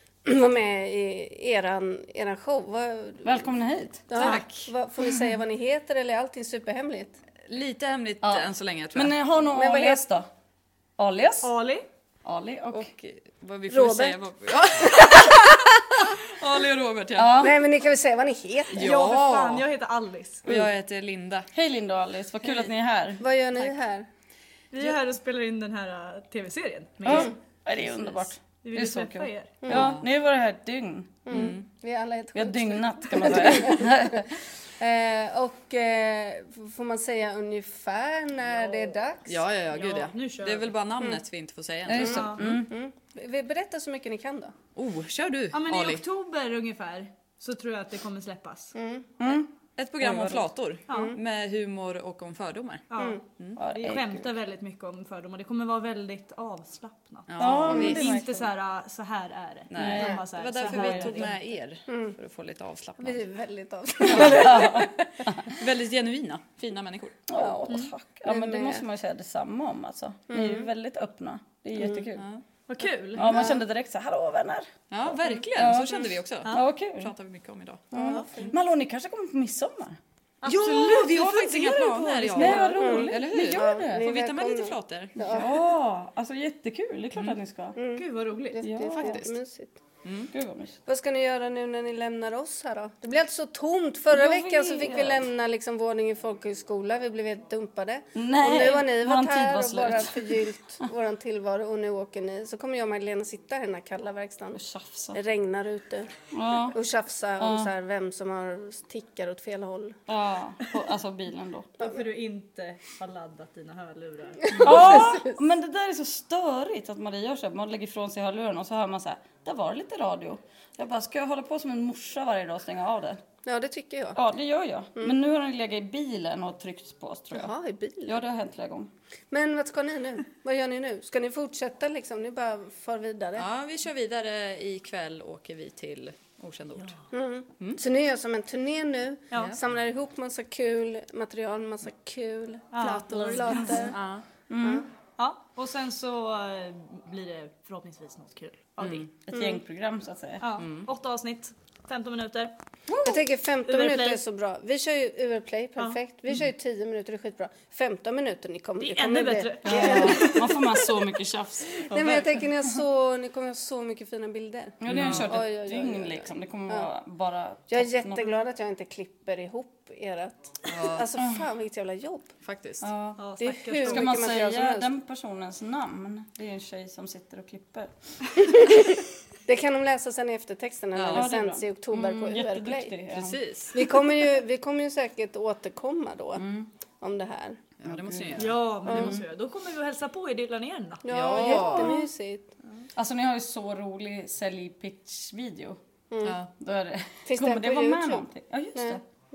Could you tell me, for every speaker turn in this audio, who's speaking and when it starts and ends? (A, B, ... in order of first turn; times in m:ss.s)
0:00.2-0:03.5 A
0:03.2-0:04.1 B
0:04.1-0:07.2 A
0:04.2-0:04.7 C
0:07.4-0:09.2 C
0:08.2-0:10.3 B
0:09.5-0:10.0 A
0:11.0-0:11.5 B
0:11.4-0:11.9 D
0:12.2-0:12.9 B
0:12.7-0:17.4 C
0:13.7-0:14.2 A
0:17.2-0:17.6 B
0:17.4-0:18.9 A
0:18.7-0:19.7 C
0:18.7-0:20.5 D
0:20.4-0:21.5 C
0:21.5-0:23.2 B
0:23.2-0:24.1 A
0:24.7-0:27.4 D
0:27.0-0:31.5 B
0:28.6-0:29.6 D
0:29.6-0:29.9 A
0:29.7-0:30.0 C
0:31.3-0:39.4 A
0:31.3-0:31.7 C
0:32.4-0:34.3 B
0:39.3-0:42.5 C
0:39.7-0:40.8 D
0:41.9-0:42.7 B
0:41.9-0:44.5 A
0:41.9-0:42.4 D
0:44.8-0:46.0 C
0:45.5-0:48.7 D
0:48.8-0:49.1 A
0:49.2-0:50.5 B
0:49.8-0:52.9 C
0:50.9-0:51.2 D
0:50.9-0:51.2 A
0:52.9-1:01.4 D
0:53.6-0:54.3 B
0:57.3-0:58.2 C
0:57.4-0:58.5 B
0:59.7-1:03.2 C
0:59.8-1:01.2 B
1:01.9-1:02.2 A
1:03.0-1:04.9 A
1:04.1-1:05.5 B
1:04.1-1:04.4 C
1:05.5-1:07.2 C
1:07.3-1:12.2 B
1:08.3-1:08.8 A
1:10.3-1:10.7 A
1:11.8-1:12.0 A
1:12.2-1:12.4 C
1:12.7-1:13.3 D
1:13.1-1:14.7 B
1:13.2-1:13.6 A
1:14.9-1:17.8 C
1:15.5-1:17.1 B
1:17.9-1:20.0 B
1:17.9-1:18.6 A
1:20.4-1:22.8 D
1:20.4-1:25.2 C
1:22.3-1:24.1 B
1:22.7-1:25.6 A
1:25.3-1:27.8 B
1:27.8-1:29.8 A
1:28.0-1:28.6 D
1:28.6-1:29.2 B
1:28.9-1:29.4 C
1:30.0-1:30.3 C
1:30.3-1:30.8 B
1:30.9-1:44.6 A
1:34.1-1:35.3 B
1:38.2-1:40.9 B
1:44.5-1:45.2 B
1:45.1-1:46.1 A
1:46.3-1:46.8 B
1:46.7-1:50.0 A
1:47.4-1:47.7 B
1:50.1-1:51.7 B
1:51.8-1:55.1 D
1:54.5-1:55.3 A
1:54.6-2:03.2 B
2:03.4-2:04.2 A
2:04.2-2:07.5 B
2:07.3-2:08.2 A
2:08.1-2:08.9 B
2:09.3-2:13.4 A
2:13.4-2:17.0 C
2:17.1-2:24.0 A
2:19.3-2:19.6 C
2:22.7-2:23.9 D
2:23.8-2:24.2 C
2:24.5-2:24.8 B
2:24.6-2:24.9 A
2:25.2-2:29.1 D
2:29.3-2:30.4 B
2:29.3-2:29.6 A
2:30.4-2:32.5 D
2:30.6-2:30.9 C
2:33.0-2:40.6 A
2:33.7-2:34.2 D
2:38.8-2:40.5 D
2:39.6-2:42.4 B
2:41.9-2:46.9 A
2:44.8-2:48.3 B
2:44.9-2:45.3 C
2:47.7-2:52.3 A
2:50.6-2:51.1 C
2:52.4-2:52.9 C
2:52.8-2:53.2 B
2:53.2-2:54.1 D
2:53.4-2:54.9 A
2:53.8-2:57.9 B
2:58.5-3:03.0 A
3:00.9-3:01.3 C
3:01.1-3:03.4 B
3:03.1-3:03.7 C
3:03.7-3:06.5 A
3:06.4-3:06.7 B
3:07.0-3:07.6 A
3:07.8-3:09.2 C
3:07.9-3:09.0 B
3:08.4-3:11.0 D
3:08.9-3:09.2 A
3:11.0-3:12.5 A
3:11.1-3:12.1 C
3:11.4-3:12.0 B
3:13.0-3:15.8 B
3:16.1-3:16.4 A
3:16.2-3:16.5 C
3:16.6-3:19.0 B
3:17.3-3:19.0 A